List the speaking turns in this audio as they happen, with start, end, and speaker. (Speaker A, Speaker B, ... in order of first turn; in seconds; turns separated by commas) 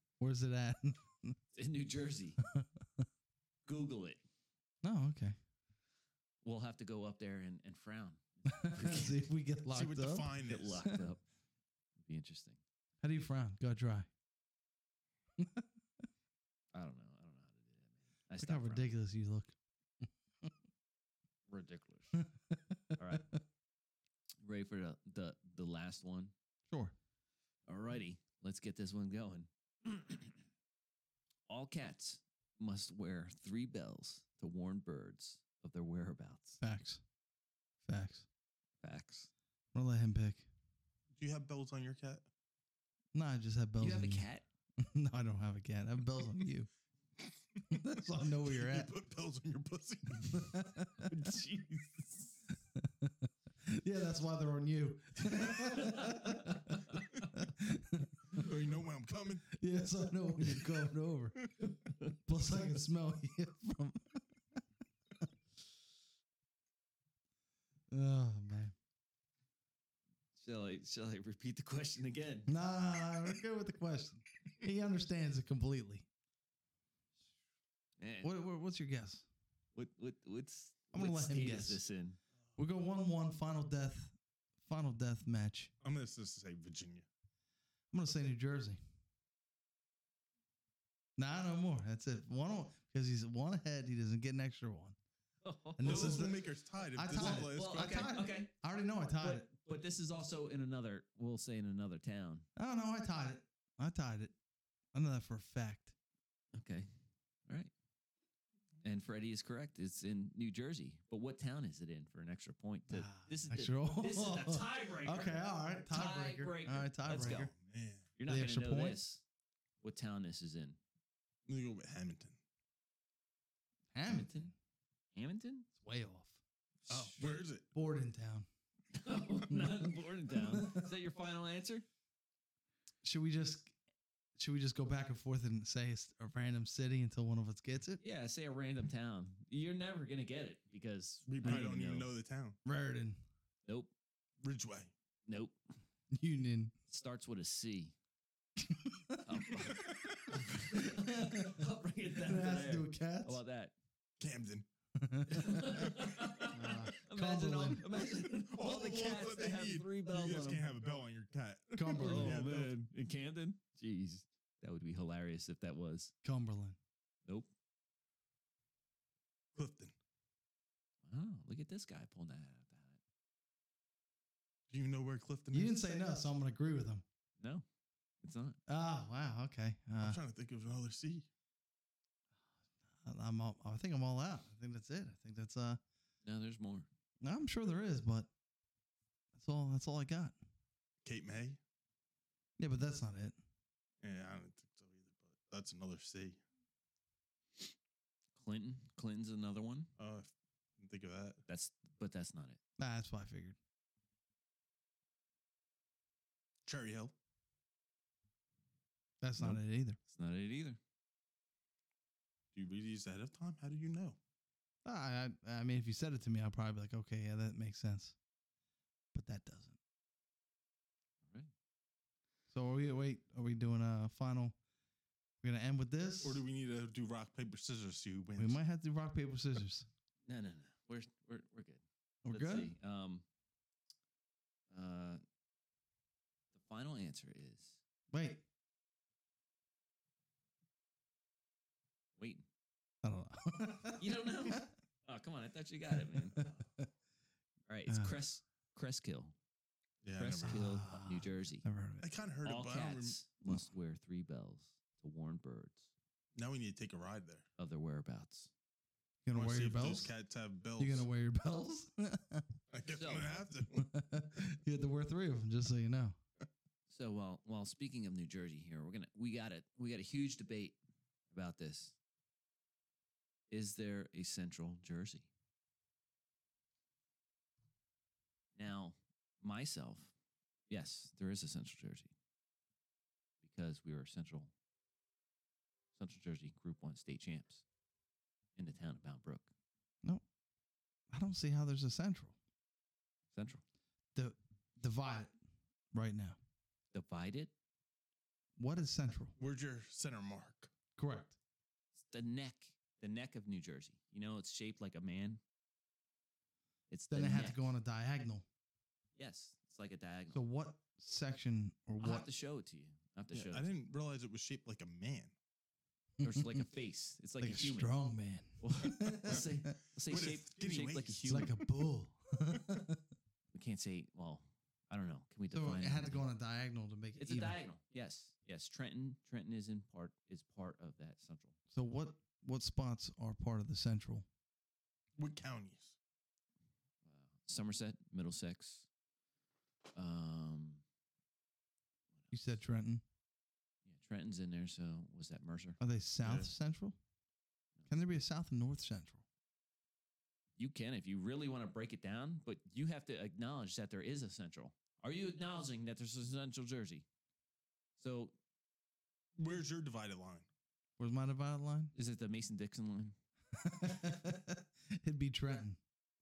Speaker A: 0.2-1.4, Speaker B: 1.5-2.4, Speaker A: 2.4-3.1, Speaker B: 3.7-4.2, Speaker A: 4.8-5.4, Speaker B: 6.4-9.2, Speaker A: 8.5-11.0, Speaker C: 9.7-10.9, Speaker B: 10.4-11.2, Speaker B: 12.0-12.6, Speaker A: 13.0-14.1, Speaker A: 15.4-15.7, Speaker B: 16.7-18.9, Speaker A: 18.4-19.6, Speaker B: 21.5-22.2, Speaker A: 22.2-23.2, Speaker B: 23.0-23.3, Speaker B: 24.4-26.3, Speaker A: 26.7-26.9, Speaker B: 27.7-30.4, Speaker B: 31.5-36.6, Speaker A: 36.6-37.0, Speaker A: 37.8-38.3, Speaker B: 38.8-39.3, Speaker A: 39.7-40.5, Speaker C: 41.2-42.3, Speaker A: 43.1-44.3, Speaker B: 43.8-44.5, Speaker A: 44.8-46.7, Speaker C: 47.5-50.5, Speaker A: 47.7-48.9, Speaker A: 50.3-51.1, Speaker B: 51.0-52.4, Speaker A: 52.8-58.5, Speaker B: 55.4-57.1, Speaker C: 58.3-59.5, Speaker A: 59.5-61.5, Speaker B: 61.6-62.2, Speaker A: 62.2-64.2, Speaker A: 67.9-68.7, Speaker B: 70.4-72.5, Speaker A: 72.5-76.1, Speaker B: 78.0-78.3, Speaker A: 78.2-79.3, Speaker B: 79.8-82.2, Speaker A: 80.9-81.8, Speaker A: 82.6-85.7, Speaker C: 85.8-87.1, Speaker A: 87.9-88.8, Speaker A: 91.2-95.0, Speaker B: 95.4-96.3, Speaker A: 95.8-99.5, Speaker C: 95.8-98.2, Speaker B: 97.1-98.5, Speaker B: 99.2-102.5, Speaker A: 102.6-104.3, Speaker A: 104.9-105.9, Speaker B: 106.5-106.9, Speaker B: 107.5-107.7, Speaker B: 108.8-117.5, Speaker A: 112.9-117.5, Speaker C: 117.1-118.1, Speaker B: 118.2-119.2, Speaker A: 118.3-119.0, Speaker B: 119.8-120.8, Speaker C: 121.5-122.4, Speaker A: 123.9-124.5, Speaker B: 124.1-124.5, Speaker B: 125.2-125.7, Speaker A: 125.8-126.4, Speaker B: 126.9-127.3, Speaker C: 126.9-127.7, Speaker A: 127.7-128.5, Speaker B: 128.9-131.9, Speaker A: 129.5-130.9, Speaker A: 133.0-133.7, Speaker A: 134.4-138.0, Speaker B: 138.0-142.1, Speaker C: 141.3-142.6, Speaker A: 142.7-143.2, Speaker B: 143.7-143.9, Speaker C: 144.4-144.9, Speaker B: 145.3-145.6, Speaker A: 146.1-146.7, Speaker B: 146.9-147.9, Speaker A: 148.6-149.8, Speaker B: 149.2-153.7, Speaker A: 150.6-151.6, Speaker A: 152.2-153.4, Speaker C: 154.2-154.7, Speaker A: 155.0-155.9, Speaker B: 155.3-160.7, Speaker C: 155.9-156.3, Speaker A: 156.5-157.8, Speaker C: 158.2-162.7, Speaker A: 161.8-162.5, Speaker B: 162.0-166.1, Speaker A: 166.2-166.8, Speaker C: 169.6-169.9, Speaker B: 171.0-173.0, Speaker C: 174.7-175.9, Speaker A: 175.5-177.0, Speaker B: 177.4-177.7, Speaker B: 178.2-178.6, Speaker A: 178.7-180.2, Speaker C: 180.0-181.3, Speaker A: 183.0-185.8, Speaker B: 186.2-186.9, Speaker A: 187.2-188.3, Speaker A: 189.3-190.4, Speaker C: 191.1-191.6, Speaker A: 192.6-193.4, Speaker C: 194.0-196.4, Speaker B: 198.4-199.9, Speaker C: 200.0-201.4, Speaker B: 201.5-202.6, Speaker A: 202.8-203.6, Speaker C: 206.7-207.1, Speaker A: 209.2-210.0, Speaker B: 209.4-210.8, Speaker C: 212.5-214.2, Speaker A: 214.8-218.2, Speaker A: 219.1-219.8, Speaker A: 222.5-224.6, Speaker A: 225.4-226.4, Speaker C: 226.2-228.6, Speaker A: 228.4-229.9, Speaker B: 230.3-233.3, Speaker A: 232.2-232.7, Speaker B: 234.7-235.2, Speaker B: 236.5-237.8, Speaker A: 238.1-238.4, Speaker B: 242.2-242.5, Speaker A: 243.0-244.6, Speaker B: 244.0-246.5, Speaker A: 245.9-246.9, Speaker B: 247.7-249.3, Speaker A: 247.9-248.2, Speaker C: 250.0-250.8, Speaker B: 250.2-251.7, Speaker A: 250.5-252.1, Speaker C: 252.0-253.2, Speaker B: 252.4-255.9, Speaker C: 256.4-257.4, Speaker B: 257.6-258.5, Speaker A: 259.2-260.1, Speaker C: 259.3-261.1, Speaker A: 260.8-262.5, Speaker C: 262.7-263.9, Speaker B: 262.9-263.4, Speaker A: 263.7-266.2, Speaker B: 266.9-270.8, Speaker B: 271.3-272.0, Speaker B: 273.5-275.3, Speaker B: 278.6-280.1, Speaker B: 280.7-282.1, Speaker B: 283.4-284.5, Speaker B: 285.9-287.6, Speaker B: 288.6-289.5, Speaker A: 291.1-292.4, Speaker B: 293.3-293.6, Speaker A: 294.1-295.3, Speaker A: 295.9-296.4, Speaker B: 296.9-297.5, Speaker A: 298.6-299.4, Speaker C: 299.4-300.7, Speaker A: 301.0-301.4, Speaker B: 301.9-305.4, Speaker B: 306.9-307.8, Speaker A: 307.1-308.5, Speaker B: 309.2-310.4, Speaker A: 310.3-312.3, Speaker B: 312.0-313.7, Speaker C: 313.3-315.3, Speaker A: 316.2-316.6, Speaker B: 316.2-317.9, Speaker A: 317.4-319.7, Speaker B: 318.6-321.5, Speaker C: 320.1-321.6, Speaker A: 321.3-323.0, Speaker B: 323.5-326.2, Speaker A: 325.5-327.6, Speaker B: 327.2-331.6, Speaker A: 331.7-334.3, Speaker C: 335.2-336.0, Speaker B: 337.0-338.9, Speaker B: 339.9-340.8, Speaker B: 342.2-342.5, Speaker A: 342.3-343.0, Speaker B: 343.9-345.8, Speaker A: 345.8-347.0, Speaker C: 346.2-346.5, Speaker A: 347.9-349.2, Speaker B: 350.6-357.1, Speaker B: 358.0-358.4, Speaker C: 359.4-360.5, Speaker A: 361.0-361.9, Speaker B: 361.9-363.2, Speaker A: 363.5-365.8